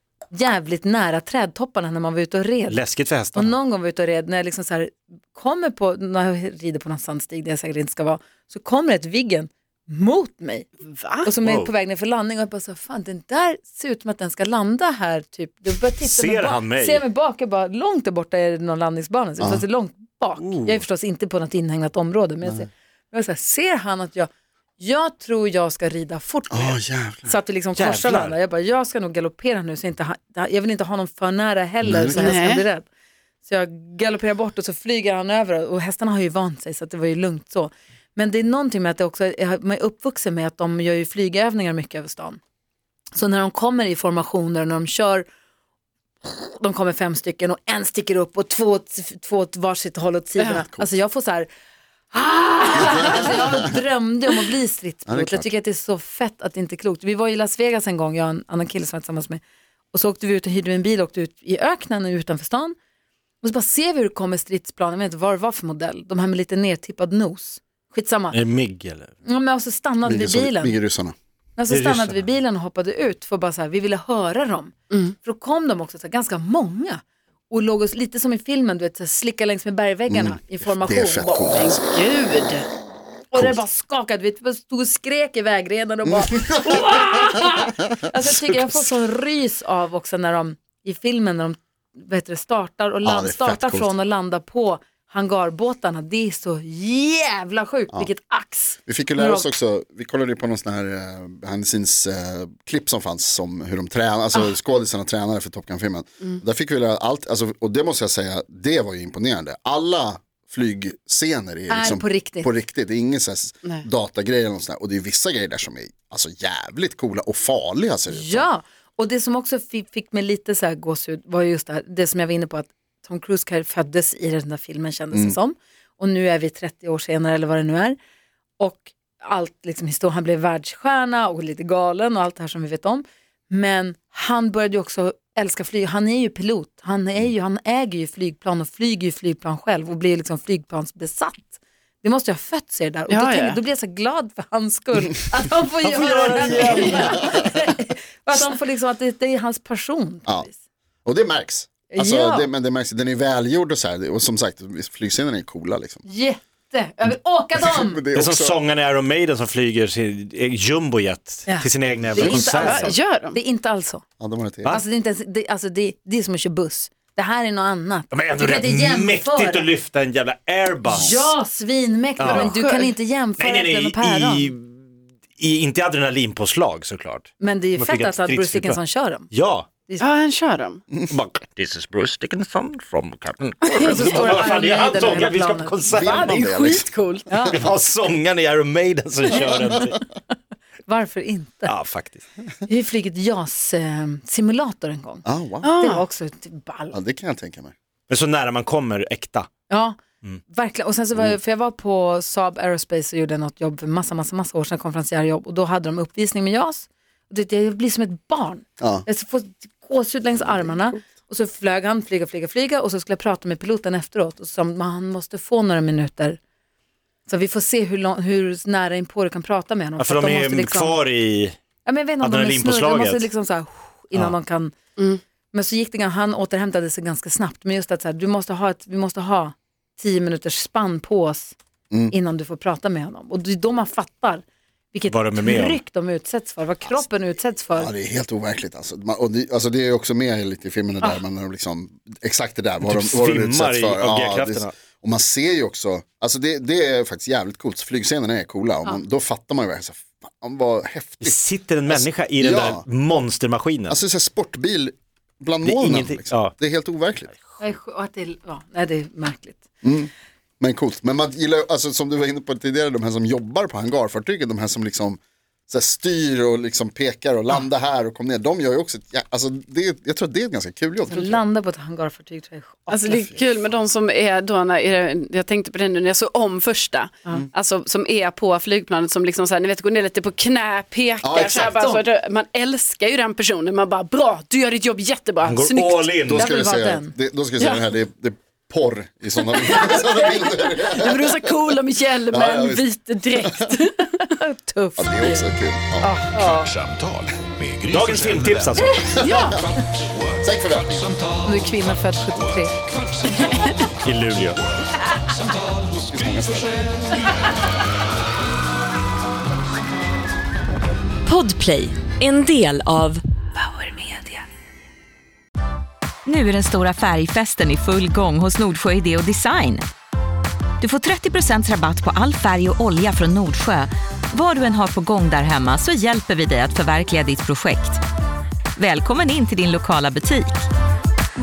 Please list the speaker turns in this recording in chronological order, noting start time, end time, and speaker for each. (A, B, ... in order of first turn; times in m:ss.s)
0:00.3-0:02.8 A
0:02.7-0:03.5 B
0:03.3-0:10.7 A
0:10.8-0:11.3 C
0:11.2-0:32.9 A
0:11.4-0:11.7 B
0:16.0-0:17.0 B
0:19.4-0:19.6 D
0:20.4-0:20.8 B
0:26.5-0:27.3 D
0:27.7-0:28.4 B
0:31.8-0:32.3 D
0:32.1-0:32.6 C
0:33.4-0:42.4 A
0:43.1-0:45.3 A
0:46.2-0:51.5 A
0:50.4-0:50.6 C
0:50.6-0:50.9 D
0:52.1-1:02.8 A
0:52.7-0:53.8 D
0:55.1-0:55.5 D
1:03.4-1:08.4 A
1:08.3-1:09.1 B
1:09.2-1:10.8 A
1:10.0-1:11.1 D
1:11.6-1:21.6 A
1:11.7-1:12.2 B
1:20.1-1:21.9 D
1:21.5-1:22.7 C
1:23.3-1:39.5 A
1:23.3-1:23.6 D
1:26.0-1:27.2 D
1:28.2-1:28.8 D
1:33.0-1:34.0 D
1:38.8-1:58.5 D
1:51.7-1:52.5 A
1:58.1-2:08.0 A
2:08.6-2:21.5 A
2:22.0-2:30.6 A
2:23.1-2:23.6 C
2:25.8-2:27.3 B
2:26.5-2:27.5 D
2:31.0-2:36.0 D
2:31.9-2:32.5 A
2:36.0-2:38.0 A
2:37.5-2:38.6 D
2:38.1-2:42.8 B
2:41.5-2:44.0 A
2:42.0-2:42.7 D
2:42.5-2:43.4 C
2:44.2-2:44.8 D
2:44.7-2:49.7 A
2:48.1-2:51.4 B
2:50.8-2:54.5 A
2:52.2-2:52.5 B
2:52.2-2:52.9 C
2:53.4-2:54.8 B
2:55.4-2:59.7 B
2:57.4-2:59.3 A
3:00.0-3:00.9 C
3:01.0-3:06.4 B
3:03.6-3:04.4 C
3:03.8-3:05.8 A
3:05.9-3:07.5 D
3:06.0-3:07.4 C
3:07.3-3:07.6 A
3:07.5-3:10.0 B
3:09.4-3:09.7 A
3:10.8-3:11.7 A
3:11.6-3:12.2 B
3:12.6-3:17.0 A
3:15.2-3:15.7 D
3:15.6-3:16.0 C
3:16.9-3:17.7 D
3:18.1-3:19.5 B
3:19.7-3:20.0 A
3:20.5-3:36.4 A
3:28.8-3:29.0 D
3:37.2-3:41.0 A
3:40.0-3:41.6 B
3:41.8-3:44.8 A
3:42.2-3:43.3 B
3:45.5-3:51.5 A
3:52.1-3:57.9 A
3:55.1-3:55.8 B
3:57.8-4:11.4 D
4:02.8-4:04.7 B
4:11.2-4:14.0 B
4:11.9-4:12.8 D
4:13.9-4:17.3 D
4:15.6-4:16.5 B
4:17.3-4:17.7 B
4:17.6-4:19.6 A
4:19.8-4:31.4 D
4:31.1-4:33.3 A
4:32.9-4:46.1 C
4:41.2-4:41.8 D
4:41.7-4:42.0 A
4:45.4-4:46.5 B
4:46.3-4:51.6 D
4:46.3-4:47.1 A
4:47.6-4:47.9 C
4:49.4-4:54.1 C
4:52.3-4:53.7 D
4:54.2-4:55.4 A
4:55.0-4:56.1 D
4:56.0-4:56.5 A
4:56.4-4:56.7 C
4:56.4-4:59.6 E
4:57.9-4:59.0 B
4:59.0-4:59.6 C
4:59.2-4:59.7 D
5:00.4-5:01.1 D
5:01.0-5:01.4 E
5:01.4-5:02.7 A
5:03.2-5:03.6 E
5:03.4-5:03.9 C
5:04.0-5:04.6 B
5:05.9-5:07.2 D
5:11.2-5:14.2 F
5:16.2-5:19.8 F
5:20.8-5:28.0 F
5:28.8-5:30.6 F